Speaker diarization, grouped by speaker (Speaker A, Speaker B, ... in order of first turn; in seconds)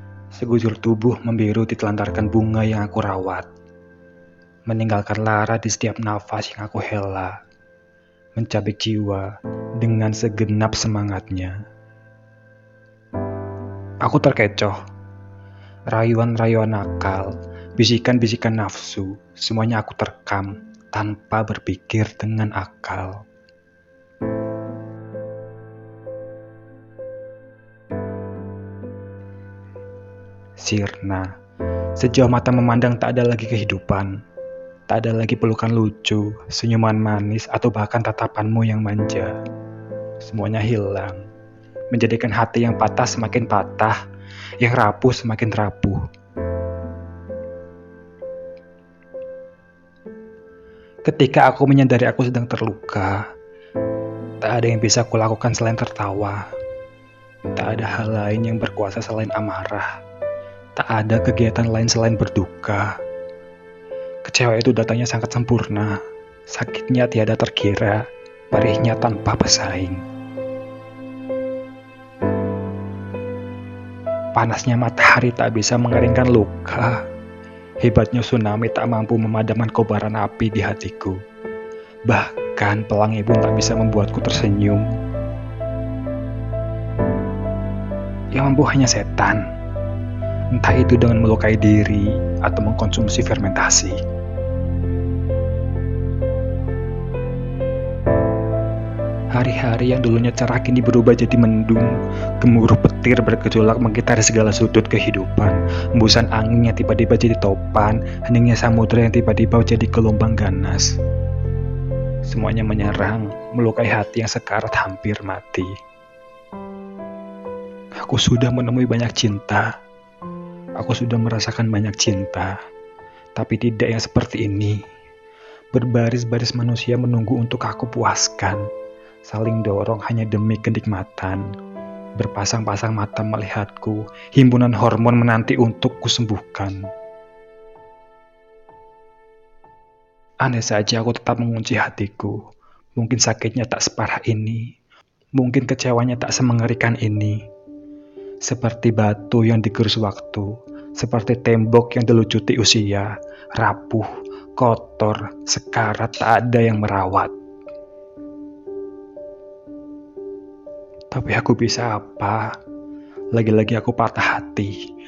Speaker A: 0.3-3.5, 4.7-7.4, 8.4-11.6, 14.0-14.8, 15.9-23.2, 30.6-31.3, 32.0-34.1, 34.9-39.4, 40.2-41.2, 41.9-44.0, 44.6-46.0, 51.0-53.2, 54.4-56.5, 57.5-59.9, 60.8-63.0, 64.2-66.0, 66.5-70.0, 74.3-77.0, 77.8-81.2, 82.1-84.9, 88.3-89.4, 90.5-94.0, 99.3-111.0, 112.2-115.7, 118.0-119.7, 120.8-122.5, 123.3-124.8, 125.7-128.6, 129.2-131.4, 132.2-136.8, 140.4-142.4, 143.0-144.7, 145.3-147.4, 148.4-157.3, 161.1-162.5, 163.3-164.8